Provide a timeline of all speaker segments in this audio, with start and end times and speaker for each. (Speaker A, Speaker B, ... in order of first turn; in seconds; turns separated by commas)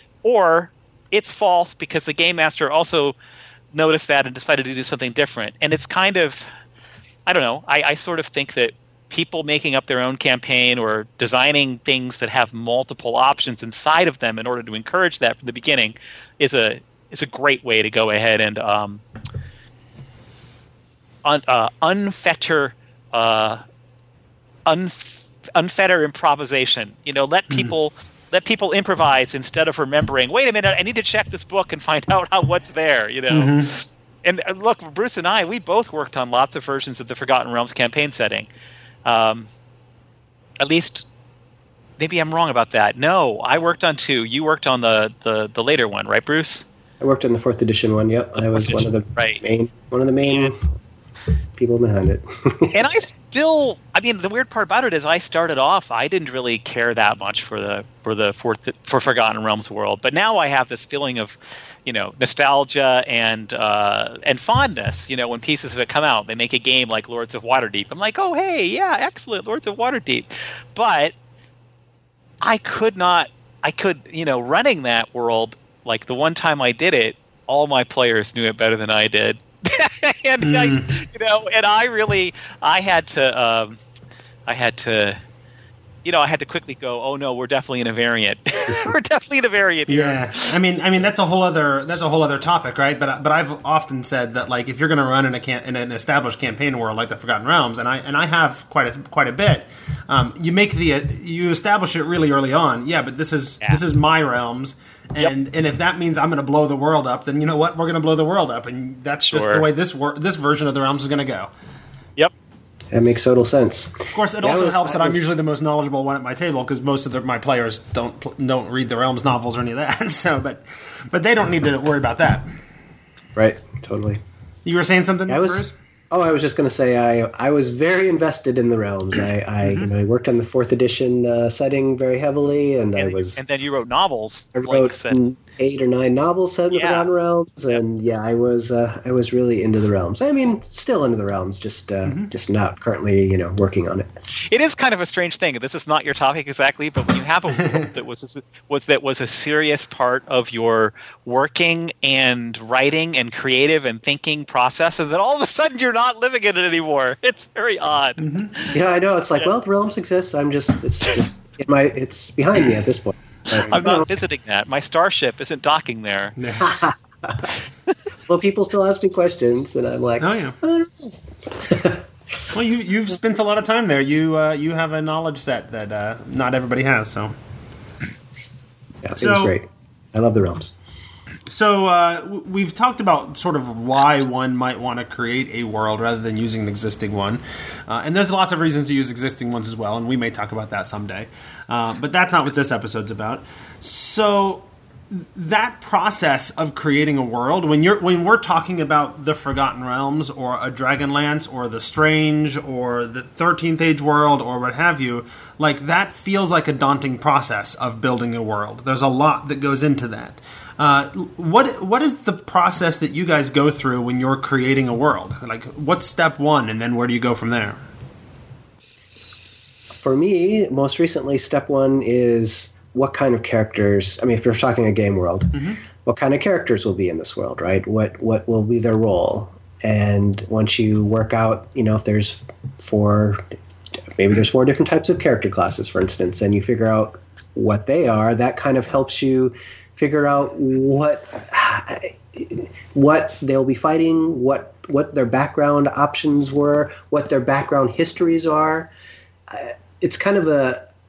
Speaker A: 0.2-3.2, Speaker A: 3.7-6.5, Speaker A: 7.3-19.0, Speaker A: 21.2-23.6, Speaker A: 24.7-38.5, Speaker B: 33.3-33.7, Speaker A: 39.0-39.5, Speaker A: 40.6-41.1, Speaker A: 42.0-46.7, Speaker C: 47.0-50.6, Speaker A: 48.4-49.4, Speaker A: 50.2-50.5, Speaker C: 51.6-52.8, Speaker A: 52.7-71.1, Speaker A: 72.4-83.8, Speaker B: 80.4-80.9, Speaker A: 84.5-85.2, Speaker A: 86.0-90.5, Speaker B: 89.9-111.5, Speaker A: 109.3-109.7, Speaker C: 112.9-115.2, Speaker B: 114.1-122.5, Speaker C: 123.3-124.2, Speaker B: 124.7-125.7, Speaker C: 125.3-133.4, Speaker B: 129.6-129.9, Speaker A: 133.0-135.2, Speaker C: 134.6-144.1, Speaker A: 136.7-137.1, Speaker B: 142.1-142.3, Speaker A: 144.4-158.8, Speaker B: 158.2-158.5, Speaker C: 158.7-164.1, Speaker A: 163.7-166.4, Speaker B: 166.4-166.7, Speaker C: 166.6-167.5, Speaker C: 168.3-172.0, Speaker B: 170.2-170.6, Speaker B: 172.5-177.3, Speaker C: 179.0-180.8, Speaker B: 179.2-179.6, Speaker B: 181.5-217.8, Speaker C: 220.0-233.5, Speaker B: 225.5-225.8, Speaker C: 234.1-248.9, Speaker C: 249.5-250.9